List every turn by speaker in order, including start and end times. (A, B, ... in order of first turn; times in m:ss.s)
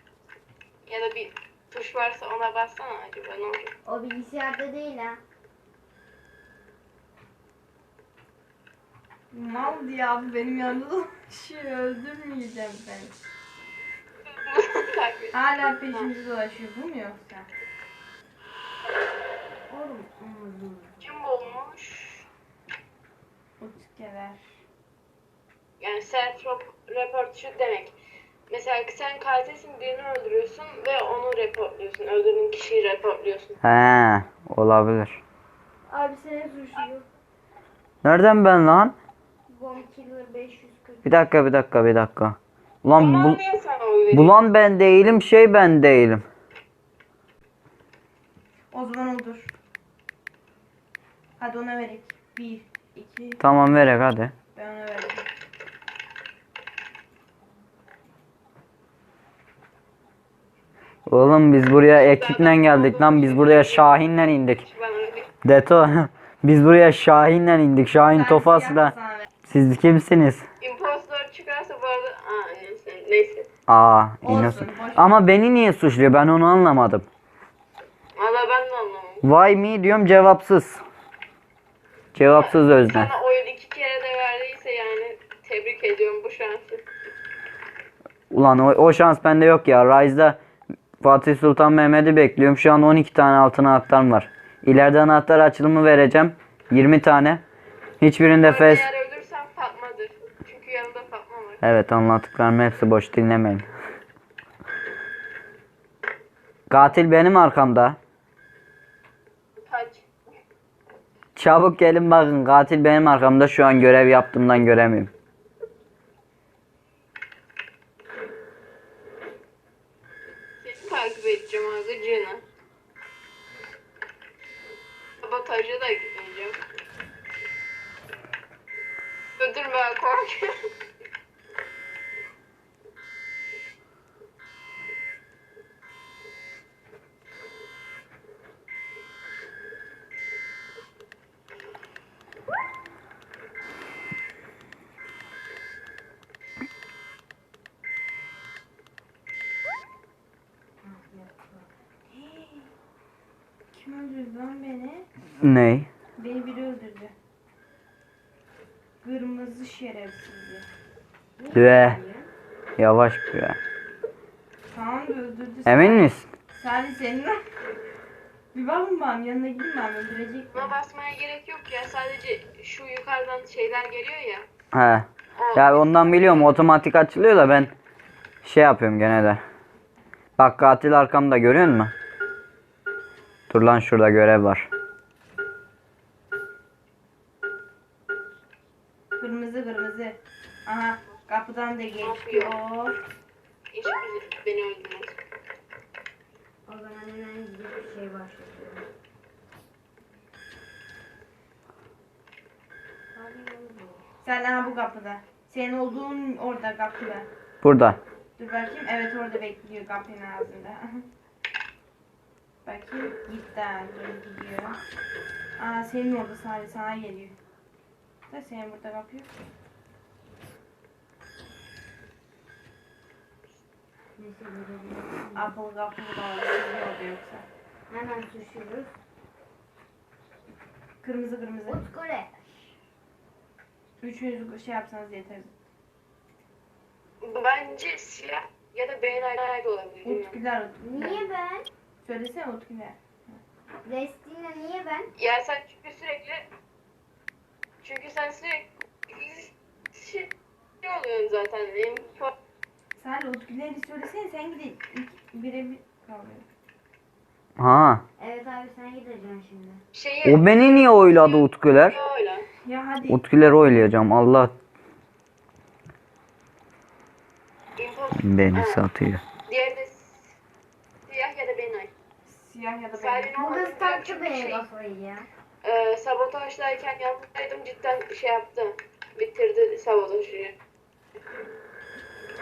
0:00.9-0:03.7 A
0:03.8-0:05.2 B
0:09.3-0:13.1 C
0:14.4-0:16.1 A
0:15.3-0:17.5 C
0:19.7-0:21.3 B
0:21.0-0:22.2 A
0:23.6-0:24.4 C
0:25.8-0:28.0 A
0:28.5-0:33.6 A
0:33.6-0:35.2 D
0:35.9-0:37.1 B
0:38.0-0:39.0 D
0:39.5-0:41.1 B
0:41.0-0:43.4 D
0:43.0-0:44.4 A
0:44.1-0:46.3 D
0:48.7-0:49.5 C
0:51.4-0:53.4 C
0:53.4-0:54.3 D
0:54.5-0:55.3 C
1:01.1-1:04.6 D
1:01.9-1:05.3 A
1:05.4-1:08.9 D
1:08.1-1:09.3 C
1:09.5-1:10.4 D
1:10.6-1:13.5 A
1:13.7-1:17.1 D
1:14.2-1:15.1 C
1:18.2-1:19.2 A
1:19.2-1:20.8 D
1:22.1-1:23.1 D
1:22.3-1:26.8 A
1:28.3-1:30.4 D
1:31.0-1:37.4 D
1:38.0-1:38.9 D
1:38.4-1:41.6 A
1:41.6-1:43.7 D
1:46.7-1:48.0 D
1:49.6-1:50.1 A
1:51.4-1:55.1 D
2:00.6-2:02.4 A
2:05.2-2:06.6 A
2:09.4-2:10.5 A
2:30.8-2:31.7 B
2:32.1-2:32.7 C
2:33.7-2:35.1 C
2:35.4-2:35.9 D
2:36.2-2:37.1 C
2:39.0-2:40.7 C
2:41.4-2:42.3 B
2:41.5-2:42.0 D
2:42.8-2:43.6 D
2:44.7-2:47.4 C
2:45.7-2:46.3 D
2:48.5-2:50.7 C
2:50.5-2:54.5 A
2:54.7-2:57.7 D
2:55.4-2:56.6 A
2:58.4-2:59.4 D
3:00.4-3:01.9 D
3:03.5-3:04.7 D
3:09.2-3:13.0 C
3:12.0-3:12.6 A
3:13.7-3:15.2 A
3:16.7-3:18.8 B
3:23.1-3:24.1 B
3:24.2-3:27.3 C
3:27.6-3:28.0 D
3:28.4-3:31.0 C
3:32.6-3:34.8 C
3:35.6-3:37.4 C
3:38.3-3:39.3 C
3:44.2-3:45.5 B
3:45.4-3:47.5 C
3:47.9-3:48.9 B
3:51.0-3:51.8 C
3:51.6-3:52.4 B
3:54.0-3:55.5 C
3:57.2-4:00.4 A
4:00.0-4:01.2 C
4:00.8-4:01.7 B
4:02.0-4:03.4 C
4:03.8-4:05.1 B
4:05.2-4:06.5 A
4:07.8-4:10.3 A
4:10.8-4:12.3 A
4:13.0-4:16.5 C
4:17.6-4:18.0 D
4:18.2-4:19.8 B
4:19.9-4:22.5 A
4:20.2-4:22.0 D
4:22.6-4:23.2 C
4:23.1-4:24.5 D
4:27.8-4:28.8 A
4:28.2-4:29.2 D
4:29.5-4:30.4 A
4:31.1-4:31.9 A
4:32.3-4:33.3 C
4:32.9-4:34.7 A
4:33.4-4:35.3 B
4:35.6-4:40.6 A